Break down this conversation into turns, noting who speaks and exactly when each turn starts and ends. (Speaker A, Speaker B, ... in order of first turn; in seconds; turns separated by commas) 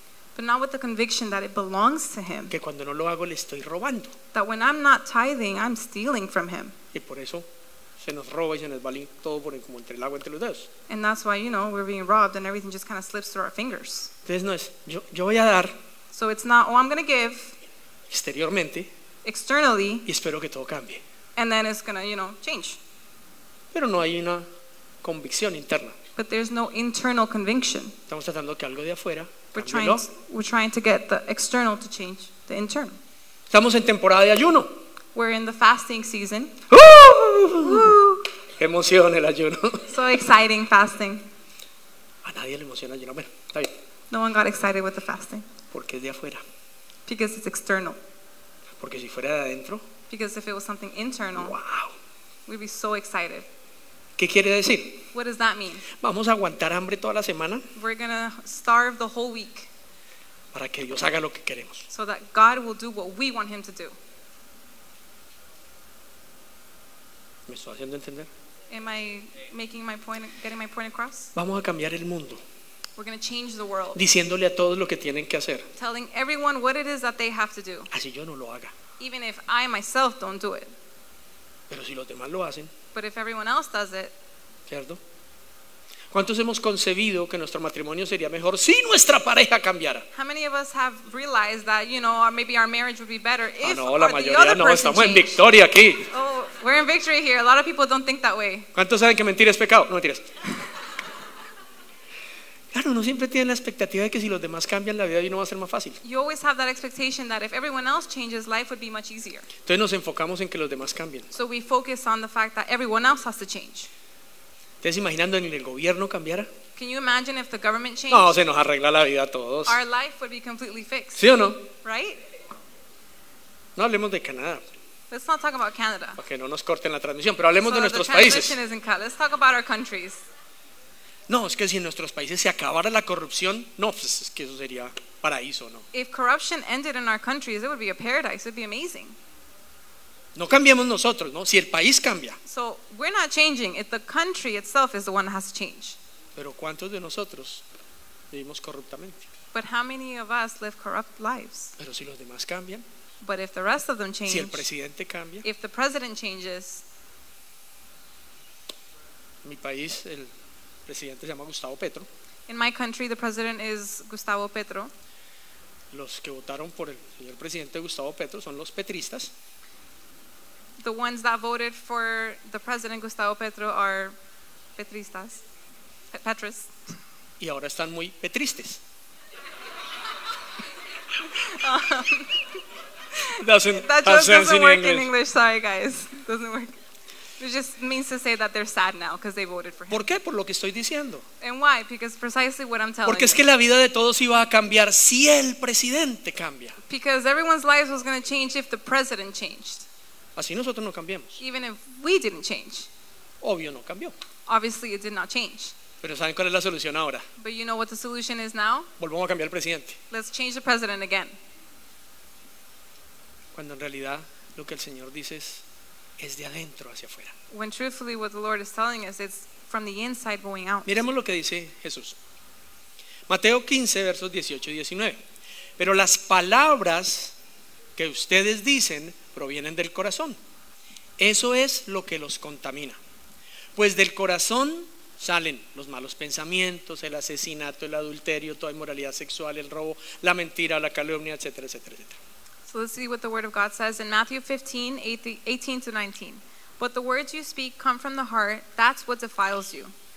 Speaker A: 0.3-2.5, Speaker B: 2.5-4.1, Speaker A: 4.3-6.8, Speaker B: 6.9-7.5, Speaker B: 8.0-10.7, Speaker A: 10.9-14.1, Speaker B: 14.2-15.8, Speaker A: 16.1-17.6, Speaker B: 18.1-18.9, Speaker A: 19.2-20.1, Speaker B: 20.1-21.0, Speaker A: 21.4-22.8, Speaker B: 23.7-24.4, Speaker B: 25.0-25.9, Speaker A: 26.1-28.0, Speaker B: 28.1-30.1, Speaker A: 29.5-33.0, Speaker B: 33.5-34.7, Speaker A: 35.1-36.6, Speaker B: 36.7-38.0, Speaker A: 37.6-38.2, Speaker B: 38.6-39.9, Speaker A: 39.9-41.3, Speaker B: 42.2-43.7, Speaker A: 44.1-45.5, Speaker B: 45.7-46.4, Speaker A: 47.0-48.0, Speaker B: 48.8-49.9, Speaker A: 50.1-51.5, Speaker B: 51.4-51.9, Speaker A: 52.5-53.5, Speaker B: 54.2-55.0, Speaker A: 55.1-55.9, Speaker B: 55.9-57.6, Speaker A: 57.7-59.7, Speaker B: 60.5-61.9, Speaker A: 61.9-64.0, Speaker B: 67.5-68.3, Speaker A: 68.7-71.3, Speaker B: 71.3-72.4, Speaker A: 73.0-74.0, Speaker B: 73.9-75.7, Speaker A: 75.8-77.9, Speaker B: 77.9-78.7, Speaker A: 79.0-80.7, Speaker B: 81.7-82.7, Speaker A: 82.9-84.1, Speaker B: 84.7-85.0, Speaker B: 86.1-90.0, Speaker A: 90.1-95.4, Speaker B: 93.6-96.1, Speaker A: 96.1-98.7, Speaker B: 98.7-100.3, Speaker B: 102.7-106.0, Speaker A: 106.0-109.5, Speaker B: 109.6-111.3, Speaker A: 111.3-113.9, Speaker B: 114.8-116.5, Speaker A: 116.8-118.3, Speaker B: 118.1-119.8, Speaker A: 119.7-122.2, Speaker B: 121.2-121.7, Speaker B: 123.8-124.7, Speaker A: 125.1-126.2, Speaker B: 126.2-128.6, Speaker A: 127.6-130.2, Speaker B: 131.3-135.8, Speaker A: 135.9-139.2, Speaker B: 140.3-142.4, Speaker A: 142.4-146.0, Speaker B: 146.3-147.6, Speaker B: 148.3-149.3, Speaker A: 149.5-151.7, Speaker B: 151.8-152.8, Speaker A: 153.2-154.7, Speaker B: 154.3-155.4, Speaker A: 155.4-156.8, Speaker B: 159.4-160.3, Speaker B: 160.9-162.1, Speaker A: 162.5-164.9, Speaker B: 165.9-169.3, Speaker A: 170.8-174.2, Speaker A: 174.8-175.4, Speaker A: 176.1-176.7, Speaker B: 177.4-178.8, Speaker A: 181.2-182.6, Speaker A: 183.1-186.8, Speaker B: 183.3-185.1, Speaker A: 187.4-190.1, Speaker B: 189.9-191.2, Speaker A: 191.4-193.4, Speaker B: 193.0-196.8, Speaker A: 196.9-199.8, Speaker B: 200.3-201.4, Speaker A: 201.4-202.9, Speaker B: 203.4-204.1, Speaker A: 204.5-205.8, Speaker B: 206.0-207.2, Speaker A: 207.4-208.9, Speaker B: 209.0-210.0, Speaker A: 210.1-211.4, Speaker B: 213.5-215.6, Speaker B: 216.2-217.3, Speaker A: 217.5-221.0, Speaker B: 220.8-222.2, Speaker B: 223.3-225.2, Speaker B: 225.8-227.3, Speaker B: 228.0-230.4, Speaker B: 231.2-233.0, Speaker B: 233.8-242.2, Speaker A: 242.7-249.9